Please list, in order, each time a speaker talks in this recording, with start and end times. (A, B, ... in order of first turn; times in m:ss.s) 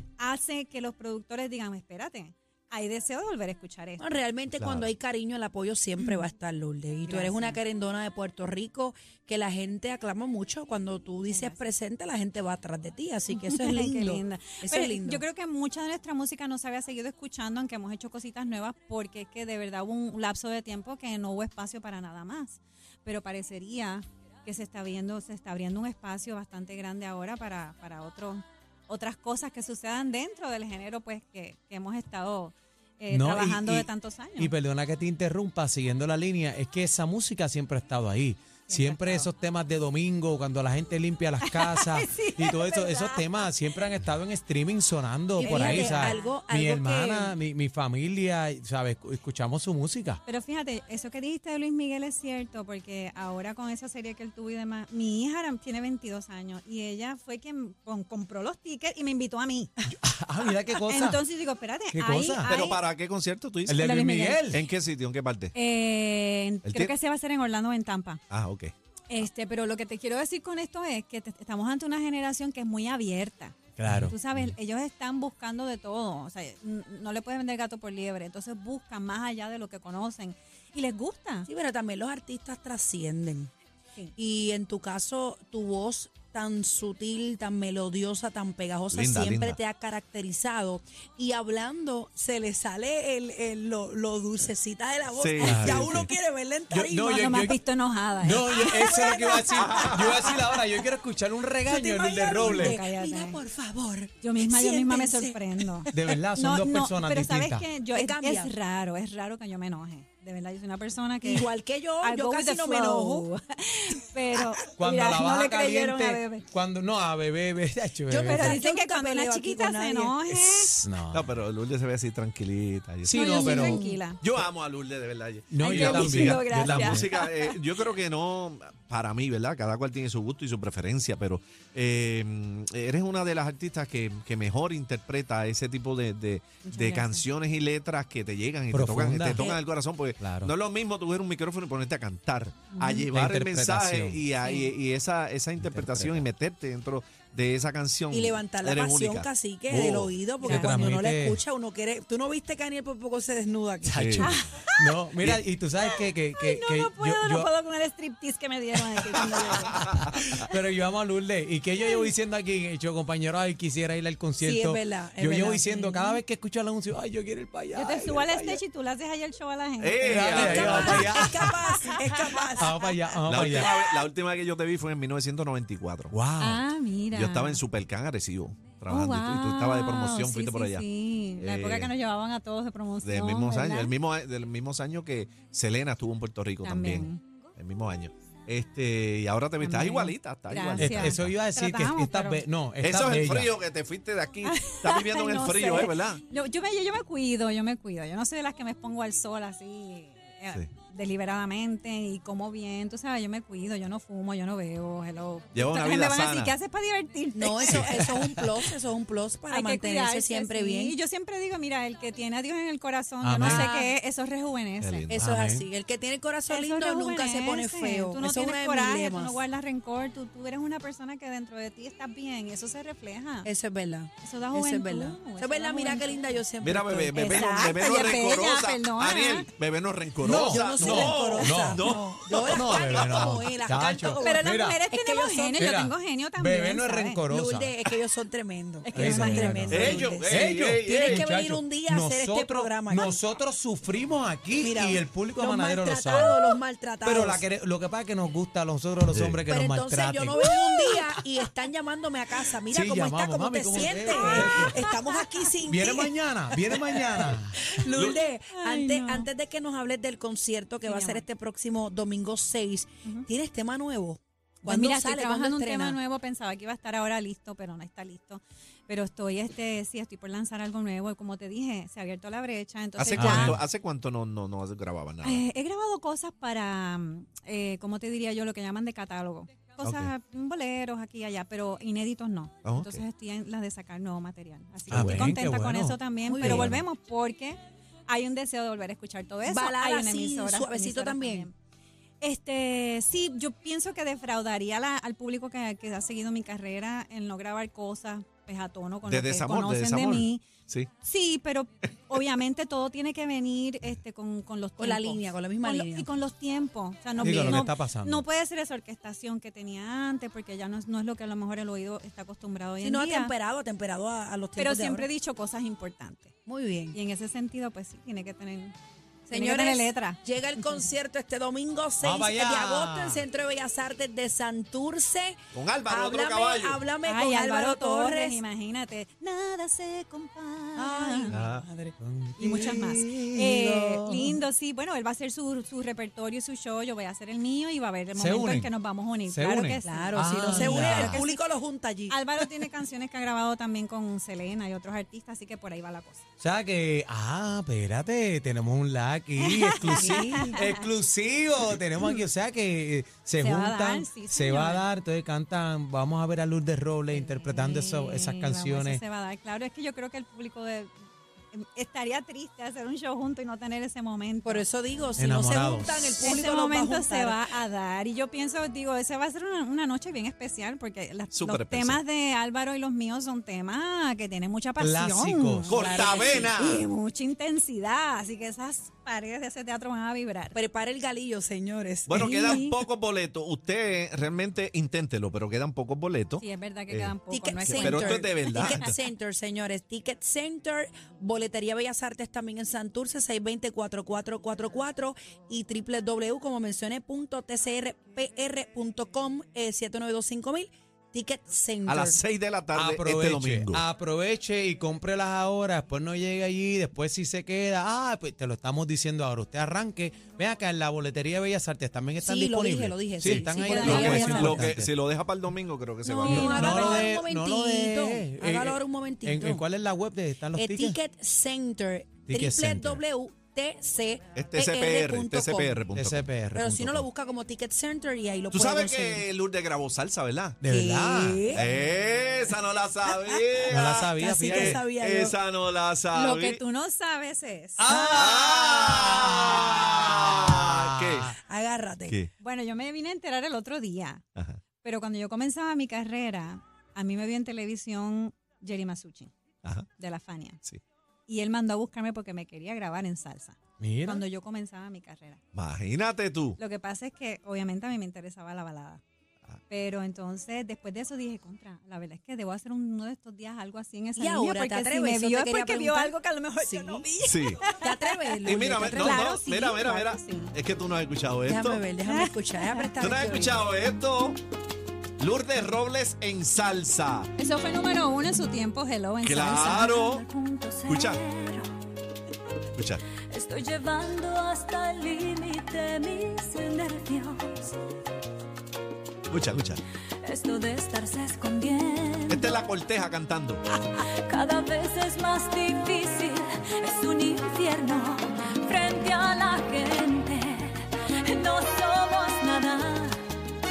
0:00.2-0:04.1 A
0:04.0-0:15.2 B
0:04.5-0:04.9 C
0:07.0-0:07.6 A
0:11.3-0:11.6 A
0:13.3-0:34.5 A
0:33.1-0:50.2 D
0:38.7-0:39.3 A
0:41.4-0:43.3 A
0:45.4-0:46.3 A
0:45.4-0:47.4 B
0:50.2-0:59.8 A
0:59.9-1:01.2 D
1:00.9-1:02.8 A
1:01.9-1:02.5 D
1:02.4-1:03.8 C
1:03.7-1:04.6 D
1:03.8-1:04.6 A
1:04.5-1:05.5 C
1:05.5-1:08.2 A
1:06.6-1:06.9 C
1:08.3-1:08.7 C
1:09.1-1:21.5 A
1:13.8-1:14.1 D
1:21.4-1:23.5 B
1:24.2-1:37.4 B
1:28.9-1:29.6 C
1:35.1-1:36.1 C
1:35.4-1:36.1 D
1:36.7-1:37.6 D
1:37.1-1:40.0 A
1:38.2-1:42.8 D
1:38.8-1:39.4 B
1:39.6-1:40.0 C
1:41.6-1:46.2 B
1:42.4-1:43.4 A
1:44.2-1:51.5 A
1:45.9-1:47.7 D
1:47.9-1:48.5 B
1:51.2-1:53.3 B
1:52.0-1:56.5 A
1:54.8-1:58.6 D
1:58.1-2:00.8 B
1:58.2-2:00.8 A
2:00.8-2:01.3 D
2:01.1-2:03.3 C
2:03.0-2:03.8 D
2:03.1-2:04.2 A
2:03.3-2:04.0 B
2:04.2-2:30.3 C
2:05.5-2:07.0 D
2:05.6-2:07.6 A
2:16.6-2:17.2 A
2:18.7-2:19.5 D
2:19.3-2:19.6 B
2:20.2-2:20.5 D
2:22.7-2:23.0 A
2:23.1-2:24.2 D
2:24.4-2:24.7 A
2:25.6-2:26.2 D
2:28.1-2:34.1 B
2:30.4-2:31.4 D
2:30.4-2:30.9 A
2:33.9-2:37.5 D
2:33.9-2:34.3 C
2:34.2-2:34.9 A
2:35.8-2:39.9 A
2:40.1-2:48.6 D
2:44.4-2:46.0 B
2:45.7-2:46.0 A
2:47.7-2:52.9 A
2:49.8-2:51.0 C
2:50.0-2:51.6 D
2:50.6-2:52.7 B
2:52.5-2:53.7 D
2:53.2-2:56.1 C
2:56.1-2:56.6 D
2:56.4-2:57.6 A
2:57.1-3:00.8 C
2:58.9-3:03.9 A
3:01.4-3:01.9 C
3:03.0-3:11.3 C
3:06.6-3:07.2 A
3:09.6-3:12.4 A
3:10.8-3:13.5 D
3:12.8-3:16.2 C
3:14.4-3:28.4 A
3:25.5-3:26.5 C
3:27.3-3:31.0 B
3:27.6-3:27.9 C
3:29.5-3:35.1 A
3:33.2-3:33.7 D
3:33.4-3:33.9 B
3:34.8-3:35.2 C
3:35.1-3:39.4 B
3:35.1-3:35.6 D
3:36.5-3:43.5 A
3:43.4-3:47.4 B
3:44.2-3:46.4 A
3:46.6-3:53.5 C
3:47.1-3:49.5 A
3:50.2-3:51.9 D
3:50.4-3:55.7 B
3:52.5-3:54.8 D
3:54.2-3:57.2 A
3:55.6-3:57.7 D
3:57.3-4:03.2 B
3:58.8-3:59.9 A
3:58.9-4:06.4 D
3:59.7-4:01.3 C
4:04.6-4:07.4 B
4:07.0-4:11.0 D
4:09.1-4:09.4 C
4:09.5-4:26.0 B
4:12.7-4:14.8 D
4:14.0-4:14.9 A
4:15.7-4:17.8 D
4:17.9-4:18.2 C
4:18.5-4:19.3 A
4:20.8-4:21.2 A
4:24.6-4:33.6 A
4:33.0-4:35.4 C
4:33.1-4:33.6 D
4:35.2-4:51.5 A
4:39.8-4:40.1 C
4:42.6-4:43.0 C
4:44.9-4:46.8 D
4:44.9-4:45.4 C
4:46.2-4:46.8 B
4:49.4-4:51.5 B
4:52.2-5:00.4 A
4:59.0-5:00.9 C
5:01.0-5:13.3 A
5:04.8-5:06.1 B
5:07.2-5:07.6 B
5:07.2-5:08.2 D
5:12.8-5:15.1 B
5:14.6-5:16.3 A
5:16.4-5:17.0 B
5:16.9-5:20.9 A
5:19.3-5:28.4 B
5:22.0-5:23.2 D
5:25.5-5:26.8 C
5:27.0-5:31.3 A
5:30.8-5:31.9 B
5:30.9-5:31.4 D
5:31.3-5:31.6 C
5:32.0-5:33.6 D
5:32.4-5:41.4 A
5:32.5-5:34.4 B
5:38.1-5:38.7 D
5:39.3-5:41.2 D
5:39.8-5:42.2 B
5:42.1-5:46.2 A
5:46.4-5:59.0 D
5:49.4-5:50.8 A
5:50.0-5:50.6 B
5:53.4-5:54.8 A
5:57.1-6:00.9 A
6:01.5-6:04.6 A
6:04.4-6:07.4 B
6:05.2-6:06.4 D
6:06.2-6:15.7 A
6:11.3-6:12.0 C
6:14.8-6:15.8 D
6:15.7-6:16.5 B
6:15.7-6:16.9 C
6:16.5-6:20.6 A
6:20.5-6:22.6 B
6:22.1-6:28.9 C
6:22.1-6:22.8 A
6:26.4-6:28.9 A
6:27.3-6:42.2 B
6:41.8-6:43.8 C
6:42.7-6:54.9 D
6:52.2-6:54.7 B
6:53.2-6:56.7 C
6:56.0-6:59.6 B
6:56.2-7:01.0 D
6:56.4-6:57.1 A
7:00.5-7:05.8 B
7:02.3-7:03.0 D
7:04.3-7:06.3 C
7:05.9-7:07.0 D
7:06.5-7:09.2 B
7:08.5-7:10.6 C
7:10.6-7:11.5 D
7:10.7-7:11.6 B
7:11.5-7:16.6 C
7:13.1-7:13.4 B
7:13.7-7:14.9 D
7:14.2-7:15.3 B
7:16.1-7:17.8 A
7:17.8-7:21.3 D
7:17.9-7:18.3 B
7:18.1-7:21.3 C
7:21.4-7:22.2 B
7:22.4-7:24.2 A
7:24.8-7:29.3 A
7:29.6-7:29.9 C
7:30.0-7:30.6 A
7:31.3-7:35.4 A
7:33.8-7:34.2 D
7:35.5-7:36.6 C
7:36.6-7:39.0 A
7:39.7-7:50.5 A
7:44.2-7:47.1 B
7:47.2-7:47.6 C
7:47.6-7:49.3 B
7:48.4-7:51.8 C
7:51.4-7:53.6 B
7:52.0-7:52.9 A
7:53.0-7:54.4 C
7:55.2-7:57.3 C
7:57.4-8:00.2 A
7:59.2-8:00.2 C
8:00.0-8:01.7 E
8:00.9-8:01.2 C
8:02.7-8:03.0 C
8:03.3-8:07.7 E
8:09.3-8:09.8 C
8:10.2-8:12.4 E
8:12.3-8:13.6 C
8:14.0-8:23.2 E